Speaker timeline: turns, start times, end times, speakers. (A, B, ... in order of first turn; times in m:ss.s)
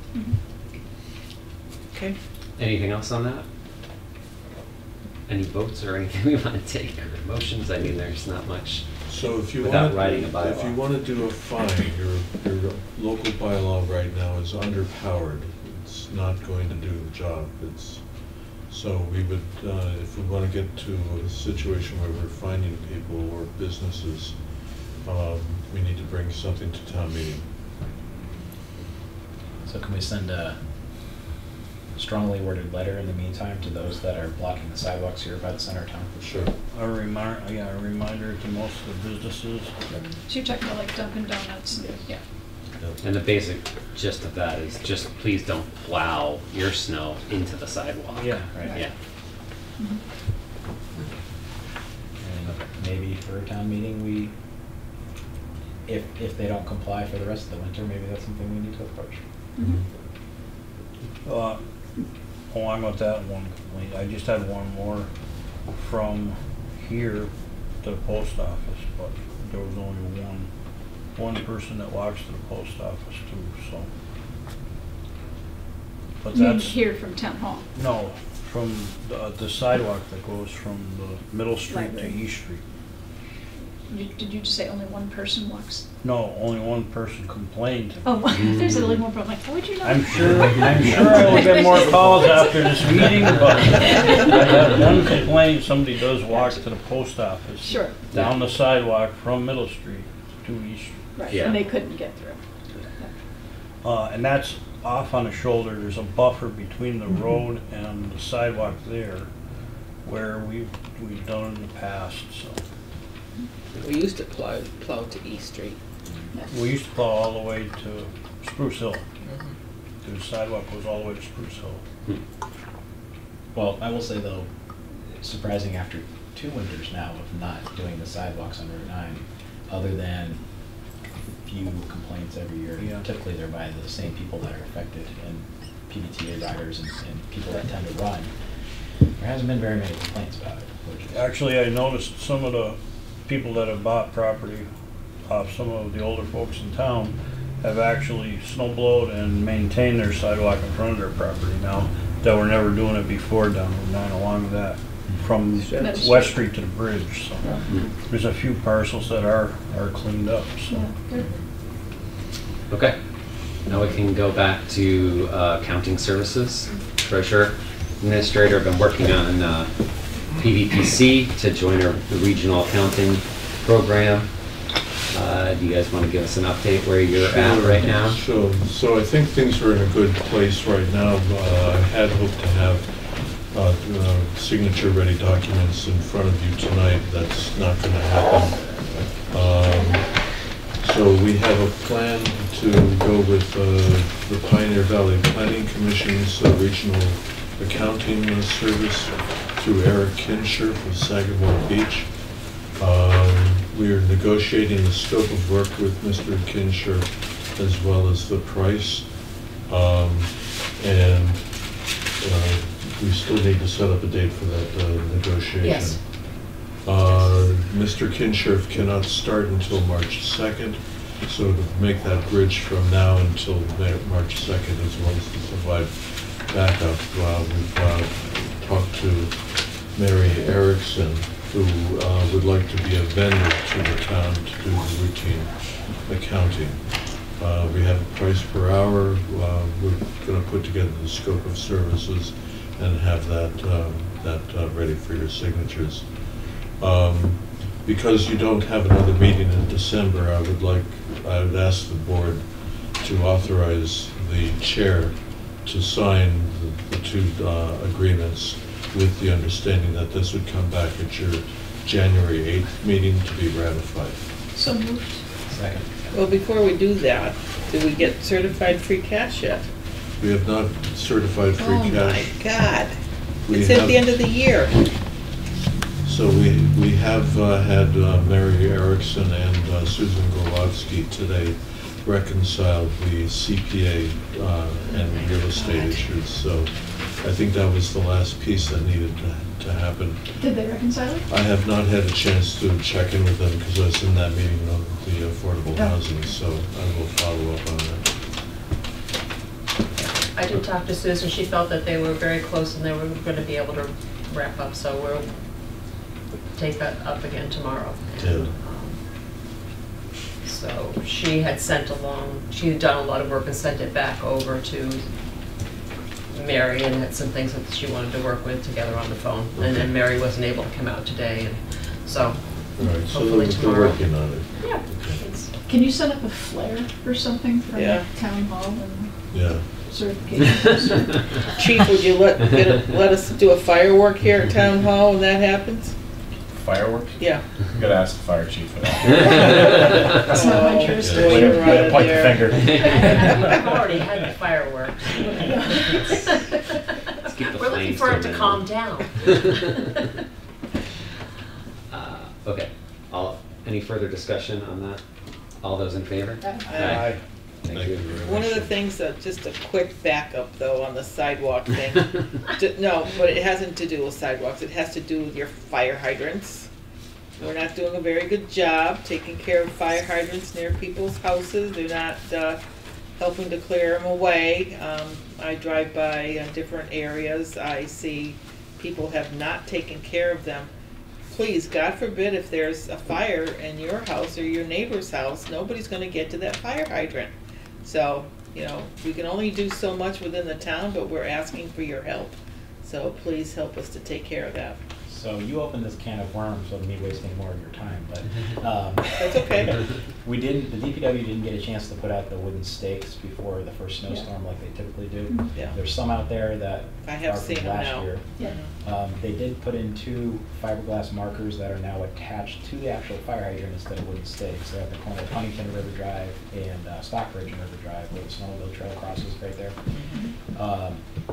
0:02.6-0:03.4 A
0:05.3-0:08.9 A
0:09.1-0:18.0 B
0:09.6-0:10.8 A
0:18.7-0:24.4 B
0:25.0-0:27.5 B
0:29.6-0:30.6 C
0:32.0-0:36.1 C
0:36.2-0:36.5 B
0:36.7-0:39.7 D
0:40.3-0:42.2 E
0:43.0-0:48.9 A
0:48.1-0:48.5 D
0:52.2-0:54.3 C
0:55.9-0:59.2 C
1:01.2-1:01.6 D
1:02.5-1:05.1 D
1:05.8-1:07.3 D
1:07.8-1:10.5 D
1:11.2-1:13.9 D
1:16.2-1:16.8 D
1:16.3-1:17.7 E
1:17.8-1:22.6 D
1:21.7-1:22.2 E
1:23.9-1:25.9 E
1:26.0-1:28.6 D
1:28.0-1:34.6 E
1:28.4-1:28.9 A
1:29.8-1:41.0 D
1:36.3-1:36.6 E
1:37.6-1:38.0 E
1:41.2-1:42.4 E
1:41.3-1:41.6 A
1:43.8-1:49.3 D
1:50.0-1:52.6 D
1:53.8-1:55.8 F
1:56.5-1:59.0 D
1:59.2-1:59.5 F
2:00.0-2:01.8 D
2:03.5-2:04.5 C
2:05.1-2:10.4 C
2:11.5-2:18.3 C
2:12.8-2:13.1 D
2:19.2-2:21.2 C
2:21.1-2:24.7 D
2:25.3-2:40.9 D
2:35.6-2:35.8 F
2:35.8-2:36.4 E
2:37.4-2:37.8 E
2:40.7-2:41.3 E
2:42.7-2:43.0 A
2:43.6-2:49.7 A
2:50.3-2:54.3 A
2:55.1-2:58.2 A
2:57.1-3:22.1 B
3:22.6-4:24.2 B
3:35.6-3:36.0 G
4:24.5-4:25.3 E
4:25.5-4:25.9 C
4:26.1-4:29.7 F
4:30.2-4:32.3 B
4:31.6-4:33.0 F
4:33.5-4:34.2 B
4:33.5-4:34.8 F
4:36.0-4:50.2 B
4:45.6-4:46.0 E
4:50.4-4:51.3 E
4:51.3-4:58.1 B
5:00.3-5:05.4 G
5:06.5-5:09.0 G
5:08.1-5:08.5 B
5:10.4-5:15.0 G
5:16.3-5:24.0 G
5:19.5-5:19.9 B
5:22.8-5:25.2 B
5:24.6-5:29.1 E
5:27.8-5:28.1 F
5:29.3-5:29.6 B
5:29.8-5:31.3 E
5:31.6-5:35.9 F
5:36.6-5:39.8 H
5:37.2-5:37.4 F
5:39.2-5:39.8 A
5:40.3-5:41.5 E
5:40.3-5:42.6 F
5:41.0-5:41.4 B
5:41.3-5:42.7 C
5:41.3-5:42.7 H
5:42.5-5:43.2 A
5:42.8-5:46.3 G
5:43.0-5:43.5 E
5:45.2-5:46.4 E
5:47.2-5:48.7 A
5:47.4-5:49.8 G
5:49.2-5:49.5 A
5:51.9-5:55.0 A
5:55.6-5:57.1 A
5:56.4-5:56.8 E
5:56.7-5:57.0 F
5:56.8-5:57.2 D
5:57.6-5:58.1 A
5:57.7-5:58.7 B
5:58.2-6:06.7 F
6:07.4-6:12.6 F
6:13.2-6:20.7 F
6:21.3-6:27.3 F
6:27.8-6:34.8 F
6:35.1-6:39.7 C
6:39.2-6:39.8 F
6:40.2-6:48.3 C
6:47.0-6:48.7 F
6:48.8-6:59.8 C
7:00.5-7:01.0 C